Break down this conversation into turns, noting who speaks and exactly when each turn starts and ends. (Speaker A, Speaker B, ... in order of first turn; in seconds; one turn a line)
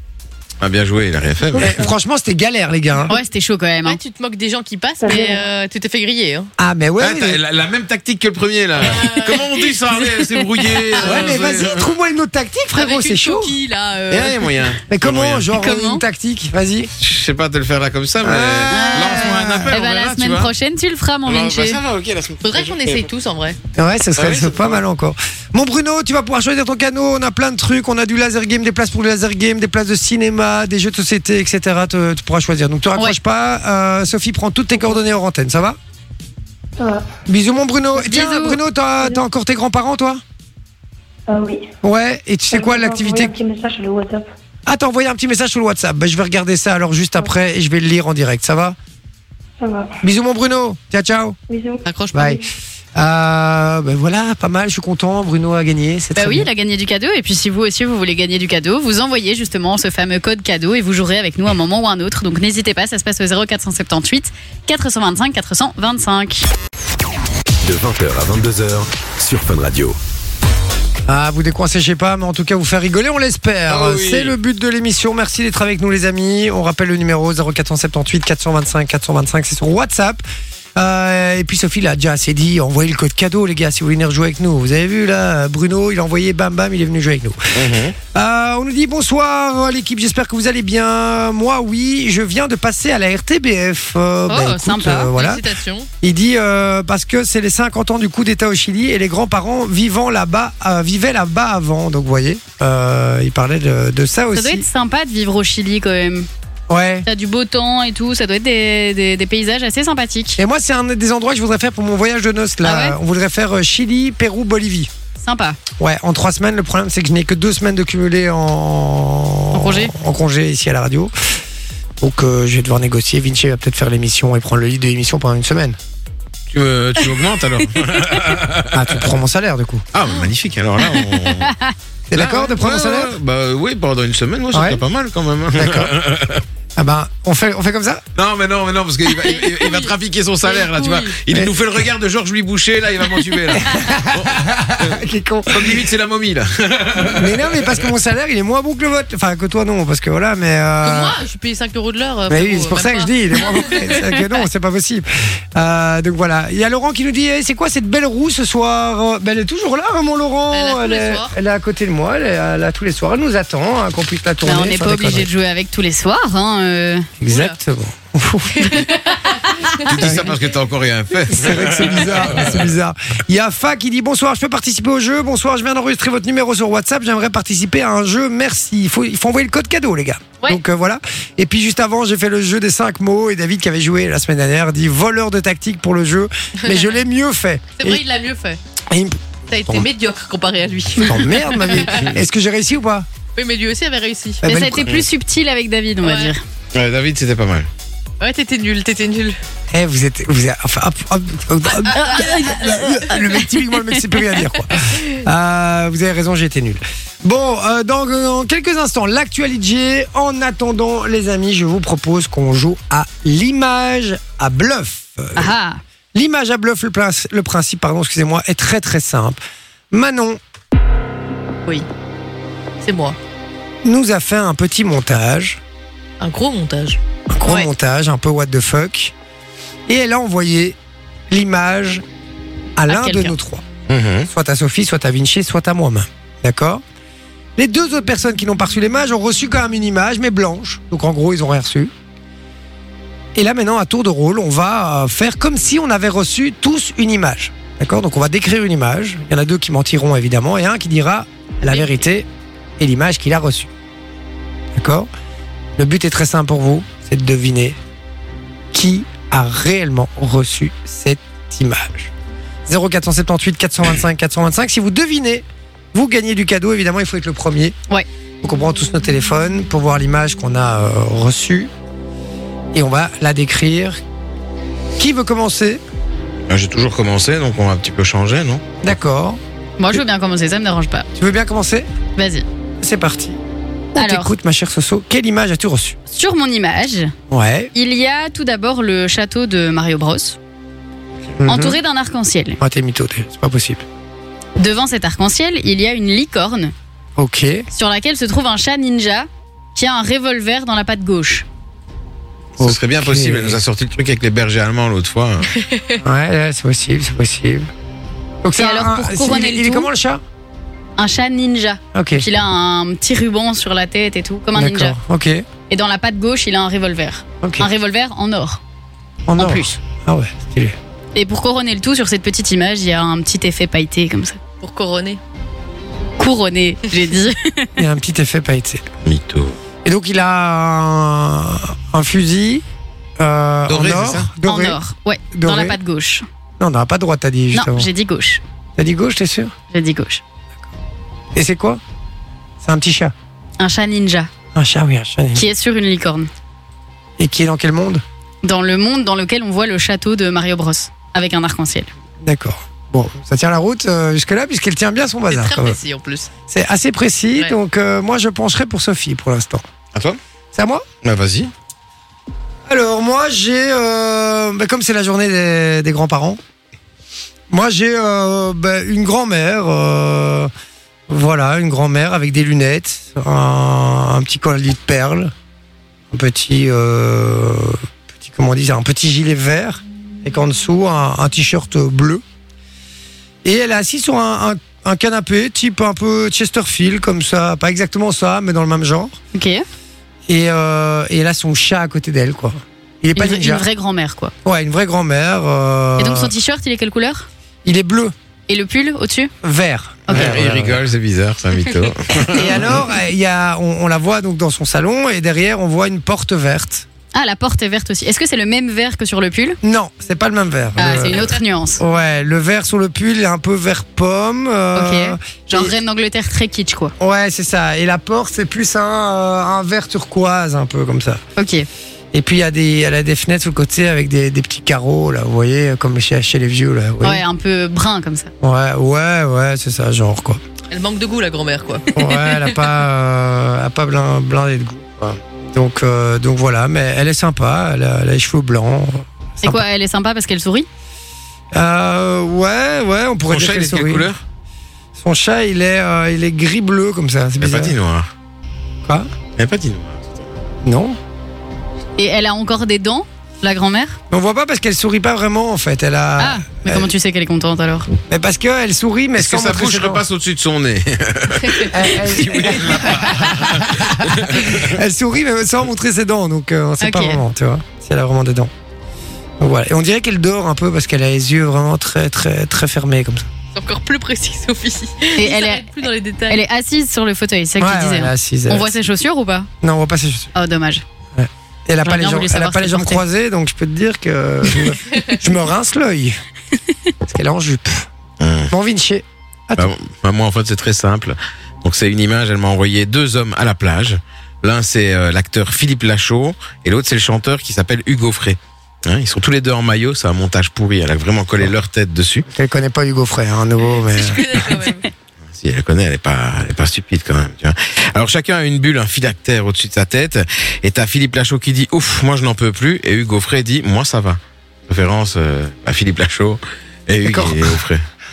Speaker A: 0.6-1.7
Speaker B: 1.6-1.9
Speaker C: 1.6-3.1
Speaker D: 3.1-4.0
Speaker E: 3.8-6.5
Speaker B: 5.0-5.4
Speaker C: 6.6-7.4
Speaker A: 7.0-11.9
Speaker E: 8.8-9.6
Speaker E: 11.0-11.5
Speaker C: 11.0-13.6
Speaker E: 12.7-14.6
Speaker A: 14.1-15.5
Speaker C: 14.9-16.9
Speaker D: 15.6-16.0
Speaker A: 17.0-20.5
Speaker C: 18.2-19.7
Speaker D: 18.7-21.8
Speaker A: 21.3-23.1
Speaker E: 22.4-23.6
Speaker C: 23.8-35.8
Speaker A: 24.2-24.8
Speaker B: 36.8-37.1
Speaker C: 37.3-40.2
Speaker D: 38.0-38.6
Speaker B: 41.3-41.7
Speaker C: 41.8-43.3
Speaker B: 42.5-44.3
Speaker C: 44.7-48.8
Speaker B: 49.6-50.0
Speaker C: 50.0-51.4
Speaker B: 51.5-51.8
Speaker E: 51.9-52.4
Speaker C: 52.1-52.4
Speaker C: 53.0-56.5
Speaker D: 56.2-66.5
Speaker F: 67.6-70.0
Speaker C: 71.1-80.2
Speaker A: 73.7-74.3
Speaker C: 80.8-87.6
Speaker A: 87.5-88.0
Speaker C: 88.1-95.5
Speaker E: 94.3-95.9
Speaker D: 94.4-95.1
Speaker C: 96.0-104.7
Speaker D: 104.3-106.3
Speaker C: 106.7-107.1
Speaker D: 107.1-110.4
Speaker C: 110.4-114.9
Speaker D: 112.6-113.0
Speaker D: 115.2-115.6
Speaker C: 115.8-121.1
Speaker D: 119.5-119.9
Speaker C: 122.0-125.8
Speaker A: 126.5-129.0
Speaker C: 128.7-129.9
Speaker A: 129.9-131.5
Speaker D: 130.9-131.7
Speaker C: 132.1-133.2
Speaker A: 132.1-136.4
Speaker C: 134.5-134.8
Speaker C: 135.5-135.9
Speaker C: 136.8-138.0
Speaker A: 138.2-147.7
Speaker E: 139.2-139.9
Speaker E: 140.5-141.2
Speaker C: 143.6-145.9
Speaker C: 147.1-151.2
Speaker E: 150.8-154.3
Speaker C: 152.3-165.3
Speaker E: 160.5-161.3
Speaker D: 164.4-167.1
Speaker C: 167.2-168.9
Speaker E: 167.3-167.6
Speaker E: 168.6-170.1
Speaker A: 169.8-172.6
Speaker C: 169.9-170.3
Speaker C: 171.3-188.0
Speaker E: 186.6-186.9
Speaker E: 187.8-188.6
Speaker C: 188.9-189.9
Speaker E: 189.5-192.1
Speaker C: 191.0-193.1
Speaker E: 193.3-194.4
Speaker D: 194.4-196.4
Speaker C: 194.4-195.0
Speaker E: 196.0-196.3
Speaker A: 196.7-197.7
Speaker E: 198.2-199.4
Speaker C: 199.7-215.5
Speaker E: 201.8-203.1
Speaker D: 201.9-203.7
Speaker D: 215.4-215.8
Speaker C: 216.1-219.4
Speaker C: 219.9-220.4
Speaker E: 222.8-223.2
Speaker C: 223.8-225.6
Speaker E: 226.2-227.7
Speaker C: 227.3-229.1
Speaker C: 229.9-230.8
Speaker C: 231.3-232.0
Speaker C: 232.8-233.6
Speaker D: 232.9-233.3
Speaker A: 233.9-234.3
Speaker C: 234.3-236.8
Speaker C: 237.6-241.9
Speaker C: 243.3-252.3
Speaker C: 252.8-253.7
Speaker C: 254.7-255.1
Speaker C: 255.8-257.8
Speaker C: 258.7-262.1
Speaker C: 262.7-267.8
Speaker C: 268.4-271.7
Speaker C: 272.7-274.0
Speaker C: 275.0-275.8
Speaker A: 276.5-278.6
Speaker C: 278.8-279.4
Speaker D: 279.8-281.1
Speaker C: 281.2-281.9
Speaker D: 282.2-282.4
Speaker C: 282.8-283.4
Speaker C: 283.9-286.0
Speaker D: 284.0-284.3
Speaker D: 286.1-287.1
Speaker C: 287.3-287.7
Speaker D: 287.7-290.4
Speaker C: 291.4-291.8
Speaker D: 291.5-292.6
Speaker C: 292.6-293.8
Speaker D: 294.6-296.7
Speaker C: 297.2-297.7
Speaker D: 297.7-301.4
Speaker A: 302.6-305.5
Speaker C: 302.6-303.6
Speaker E: 305.5-306.0
Speaker C: 306.0-307.7
Speaker C: 308.4-310.2
Speaker D: 308.6-309.9
Speaker D: 311.0-315.0
Speaker C: 311.9-312.2
Speaker C: 314.5-315.4
Speaker D: 315.7-318.6
Speaker C: 317.4-317.7
Speaker C: 319.3-320.8
Speaker D: 319.4-319.7
Speaker D: 321.1-324.4
Speaker E: 324.6-325.2
Speaker D: 326.2-327.7
Speaker C: 327.8-328.9
Speaker A: 329.1-329.6
Speaker C: 329.8-332.6
Speaker C: 333.2-334.8
Speaker A: 333.7-334.3
Speaker D: 334.4-336.2
Speaker C: 335.3-335.8
Speaker C: 336.6-337.9
Speaker D: 337.5-338.4
Speaker C: 338.8-339.5
Speaker D: 339.7-340.2
Speaker C: 341.3-341.8
Speaker C: 342.6-343.1
Speaker D: 343.6-344.3
Speaker C: 344.5-345.5
Speaker D: 345.4-346.3
Speaker C: 347.2-348.0
Speaker D: 348.4-351.9
Speaker C: 352.2-355.8
Speaker E: 355.3-356.3
Speaker C: 356.5-359.6
Speaker A: 359.9-360.2
Speaker C: 360.5-360.9
Speaker A: 361.0-361.5
Speaker C: 362.7-366.4
Speaker C: 367.5-370.5
Speaker C: 371.1-375.3
Speaker C: 376.1-382.2
Speaker C: 383.4-389.2
Speaker D: 389.3-389.6
Speaker C: 390.3-393.7
Speaker D: 393.2-394.3
Speaker C: 394.4-396.3
Speaker D: 396.0-397.3
Speaker C: 397.6-398.1
Speaker D: 398.5-399.3
Speaker C: 399.4-400.8
Speaker D: 400.1-400.4
Speaker A: 400.1-402.8
Speaker C: 402.2-406.9
Speaker D: 407.1-409.6
Speaker C: 409.6-415.7
Speaker D: 410.8-411.8
Speaker D: 414.8-416.9
Speaker C: 417.0-421.2
Speaker D: 421.4-421.7
Speaker C: 422.1-427.2
Speaker D: 427.0-428.3
Speaker C: 428.4-430.4
Speaker E: 430.7-432.6
Speaker C: 431.9-439.6
Speaker D: 439.4-440.7
Speaker C: 441.5-444.1
Speaker A: 443.3-444.2
Speaker C: 445.0-447.8
Speaker A: 447.4-448.1
Speaker A: 449.4-450.4
Speaker C: 450.6-451.0
Speaker D: 452.0-454.0
Speaker C: 454.1-456.9
Speaker D: 456.2-457.9
Speaker C: 458.1-460.0
Speaker A: 459.2-464.7
Speaker C: 461.6-468.5
Speaker D: 466.8-467.2
Speaker C: 469.4-473.3
Speaker E: 473.5-476.4
Speaker D: 475.2-475.7
Speaker D: 476.3-479.5
Speaker C: 477.6-478.7
Speaker C: 479.6-480.3
Speaker D: 480.4-480.8
Speaker C: 481.1-486.2
Speaker D: 481.8-483.0
Speaker C: 487.1-487.9
Speaker A: 488.2-488.5
Speaker C: 488.5-489.7
Speaker A: 489.6-502.3
Speaker C: 502.3-504.5
Speaker E: 503.6-504.9
Speaker A: 505.3-517.8
Speaker C: 517.0-517.6